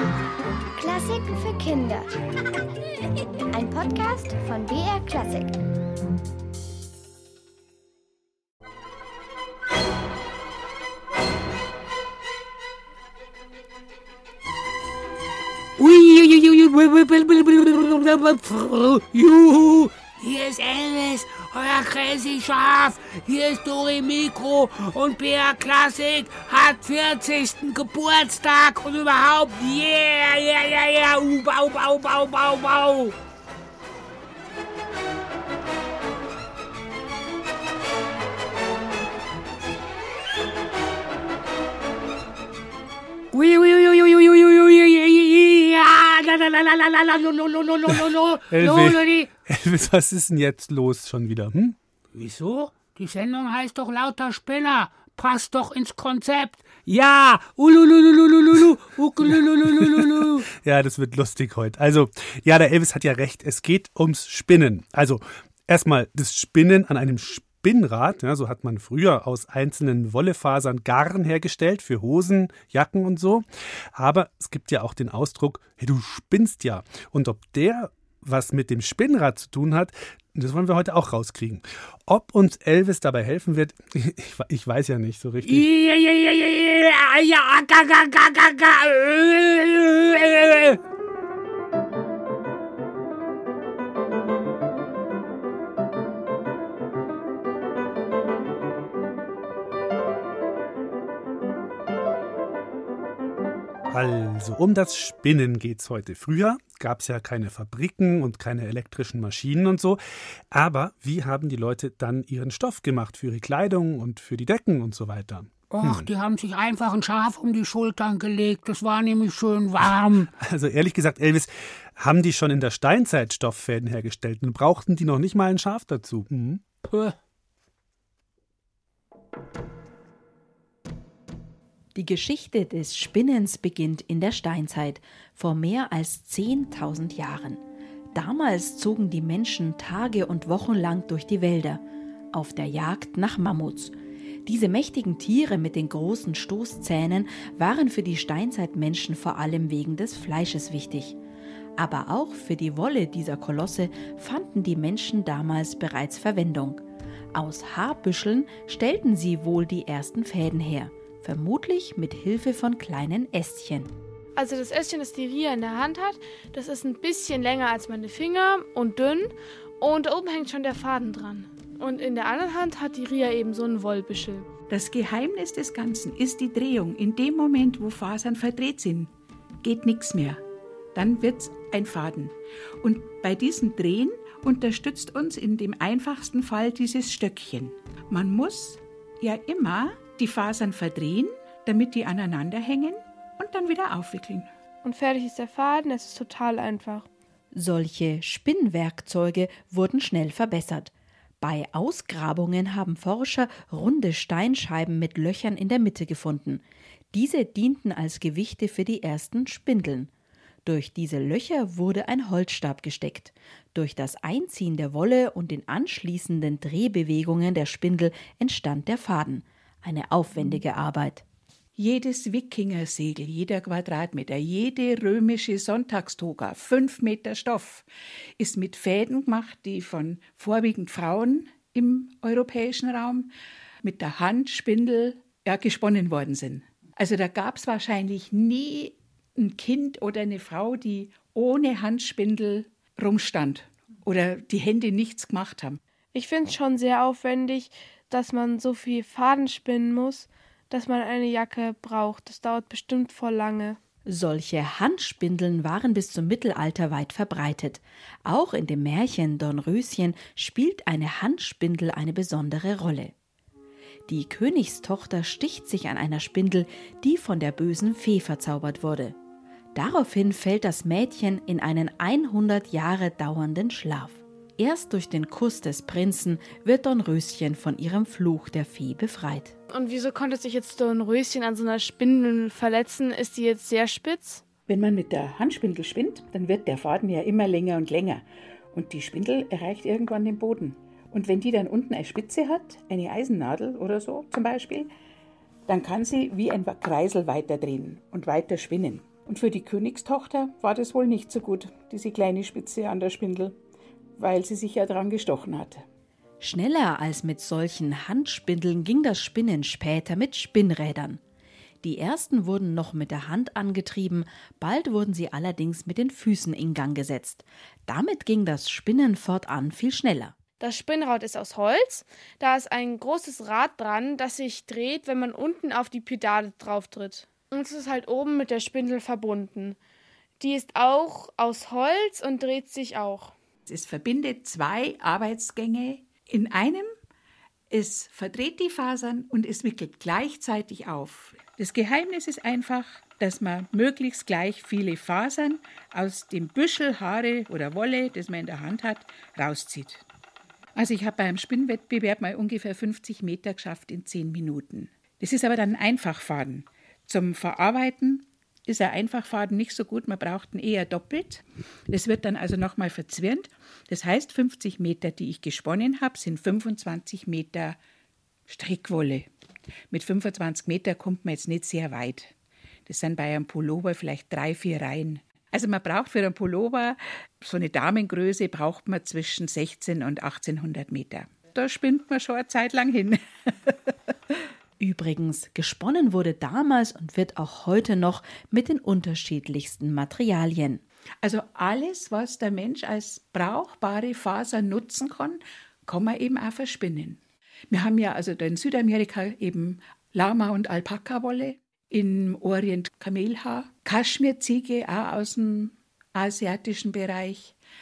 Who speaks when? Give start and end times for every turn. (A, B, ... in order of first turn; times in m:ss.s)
0:00.8-0:02.1 A
0:03.6-0:05.5 A
0:15.8-0:33.2 B
0:43.3-0:49.3 B
0:47.9-0:51.8 C
0:52.2-1:00.5 B
1:00.6-1:25.7 C
1:25.4-1:30.8 B
1:43.9-1:56.1 C
1:55.7-2:00.3 B
2:00.4-2:06.6 C
2:06.8-2:07.2 B
2:12.0-2:31.2 D
2:31.8-2:43.9 D
2:44.4-2:54.5 E
2:54.7-2:59.1 F
2:59.6-3:00.4 F
3:00.9-3:14.5 F
3:14.8-3:17.1 E
3:17.5-3:30.1 D
3:30.6-3:41.2 D
3:41.8-3:47.8 F
3:48.4-3:53.3 F
3:53.8-4:05.8 F
4:06.1-4:13.8 E
4:14.1-4:23.1 D
4:24.1-4:29.2 D
4:29.7-4:39.6 D
4:39.7-4:44.4 E
4:44.7-4:54.9 F
4:55.7-5:03.6 F
5:04.2-5:05.8 F
5:06.4-5:11.2 D
5:11.8-5:20.4 D
5:20.6-5:29.8 E
5:30.4-5:33.4 E
5:33.7-5:36.9 F
5:37.7-5:50.0 F
5:50.8-6:07.8 F
6:08.5-6:09.3 F
6:09.9-6:12.3 F
6:12.9-6:23.9 F
6:24.8-6:30.8 D
6:31.2-6:47.6 F